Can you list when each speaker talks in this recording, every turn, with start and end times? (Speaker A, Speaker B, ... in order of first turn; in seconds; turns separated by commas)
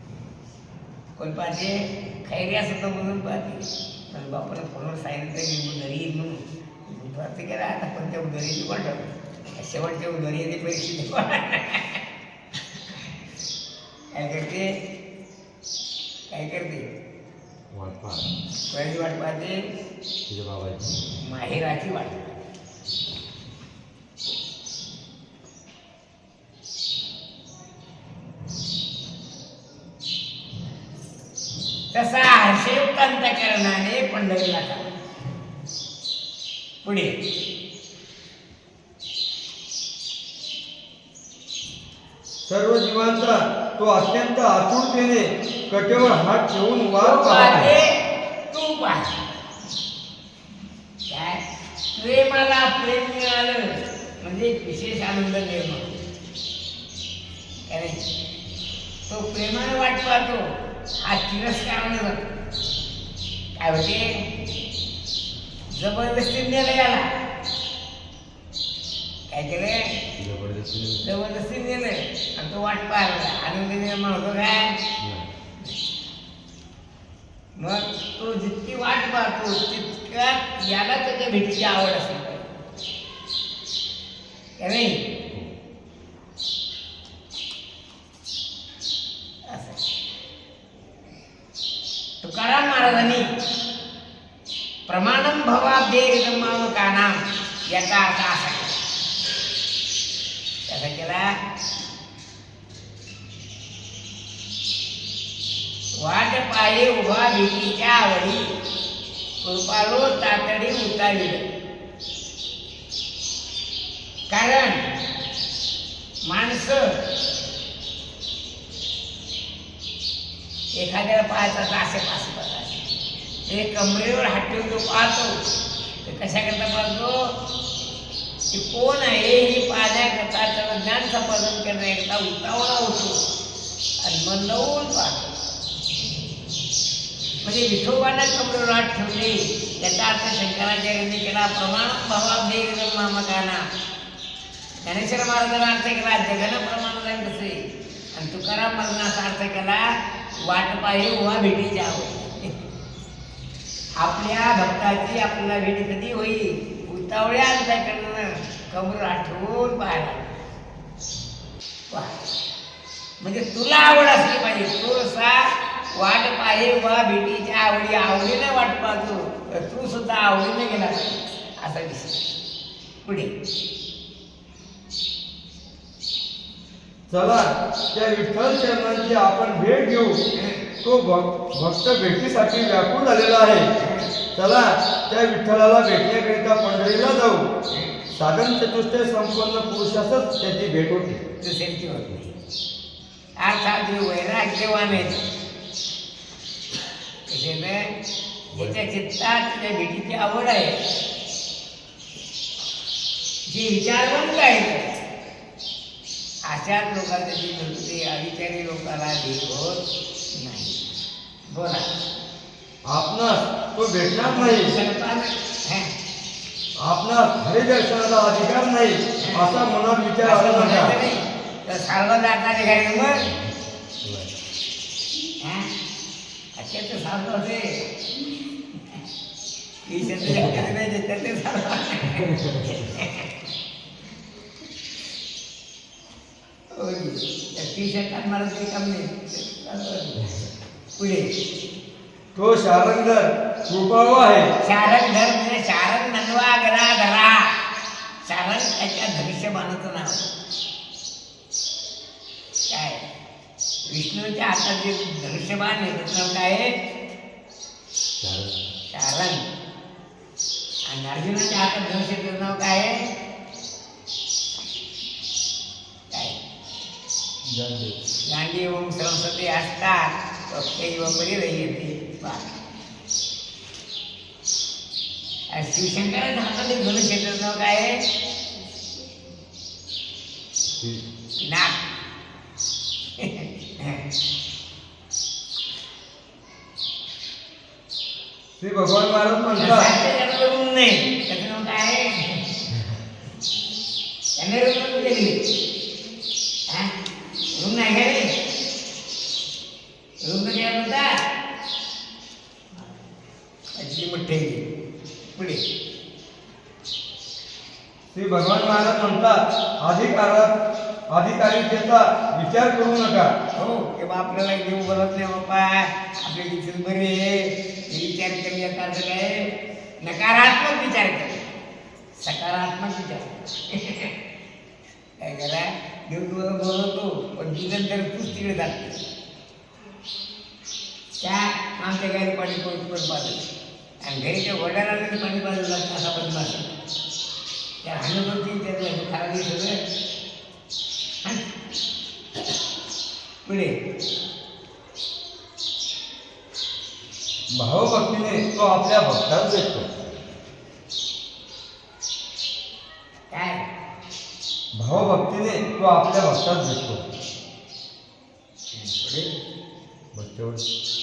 Speaker A: 1.2-12.0, Speaker A: 14.1-14.7, Speaker A: 16.3-16.9, Speaker B: 17.7-18.3, Speaker A: 18.7-19.6, Speaker B: 20.3-20.9, Speaker A: 21.2-22.2, Speaker A: 31.9-34.9, Speaker A: 36.8-37.1, Speaker C: 42.5-47.8, Speaker A: 47.0-47.9, Speaker A: 48.5-49.2, Speaker A: 51.1-51.4, Speaker A: 51.9-56.0, Speaker A: 57.7-58.1, Speaker A: 59.1-62.2, Speaker A: 63.5-64.2, Speaker A: 65.7-67.1, Speaker A: 69.3-69.9, Speaker B: 70.2-71.1, Speaker A: 71.0-74.8, Speaker B: 75.0-75.3, Speaker A: 77.6-82.5, Speaker A: 84.6-85.0, Speaker A: 89.5-89.8, Speaker A: 92.2-93.3, Speaker A: 94.9-98.8, Speaker A: 100.7-101.3, Speaker A: 106.0-108.5, Speaker A: 109.4-111.5, Speaker A: 114.3-114.9, Speaker A: 116.2-117.0, Speaker A: 120.7-122.8, Speaker A: 123.5-125.4, Speaker A: 126.0-127.3, Speaker A: 128.5-133.2, Speaker A: 134.0-135.3, Speaker A: 137.4-143.7, Speaker A: 144.8-152.5, Speaker A: 154.0-160.4, Speaker A: 161.9-162.2, Speaker A: 163.2-172.2, Speaker A: 173.0-173.3, Speaker C: 177.1-180.2, Speaker A: 180.3-180.7, Speaker C: 180.8-183.7, Speaker A: 183.8-184.1, Speaker C: 184.3-187.4, Speaker C: 188.1-191.2, Speaker A: 191.4-192.3, Speaker A: 193.4-195.2, Speaker A: 197.3-197.9, Speaker B: 198.5-198.8, Speaker A: 198.5-200.8, Speaker A: 203.4-205.0, Speaker A: 206.4-210.8, Speaker A: 211.5-211.9, Speaker C: 212.8-214.7, Speaker A: 214.2-215.9, Speaker C: 216.8-221.0, Speaker A: 219.2-219.7, Speaker A: 220.2-223.3, Speaker B: 223.3-223.5, Speaker B: 224.0-224.3, Speaker A: 225.4-225.7, Speaker A: 226.5-229.0, Speaker A: 229.8-233.3, Speaker A: 236.7-240.2, Speaker A: 240.9-241.3, Speaker C: 242.3-244.5, Speaker A: 244.6-247.6, Speaker A: 248.2-250.3, Speaker A: 252.7-253.0, Speaker A: 253.8-256.7, Speaker B: 258.2-258.6, Speaker A: 258.9-259.4, Speaker A: 260.9-263.1, Speaker A: 266.1-266.4, Speaker B: 267.5-267.9, Speaker A: 268.2-272.5, Speaker A: 275.5-278.0, Speaker B: 280.8-281.0, Speaker A: 281.4-281.8, Speaker A: 283.2-284.0, Speaker C: 288.6-289.9, Speaker A: 289.6-292.4, Speaker A: 294.4-295.4, Speaker A: 296.7-296.9, Speaker A: 297.5-298.3, Speaker A: 300.2-301.1, Speaker A: 303.7-304.7, Speaker A: 305.2-305.6, Speaker C: 308.1-310.5, Speaker C: 311.1-313.3, Speaker A: 313.5-319.5, Speaker A: 320.0-321.4, Speaker A: 322.1-324.1, Speaker A: 325.2-329.0, Speaker A: 331.2-333.4, Speaker A: 334.0-336.7, Speaker A: 337.8-339.8, Speaker A: 343.4-343.7, Speaker C: 347.5-349.9, Speaker A: 353.3-353.7, Speaker C: 354.8-357.0, Speaker A: 358.7-359.3, Speaker B: 360.1-360.6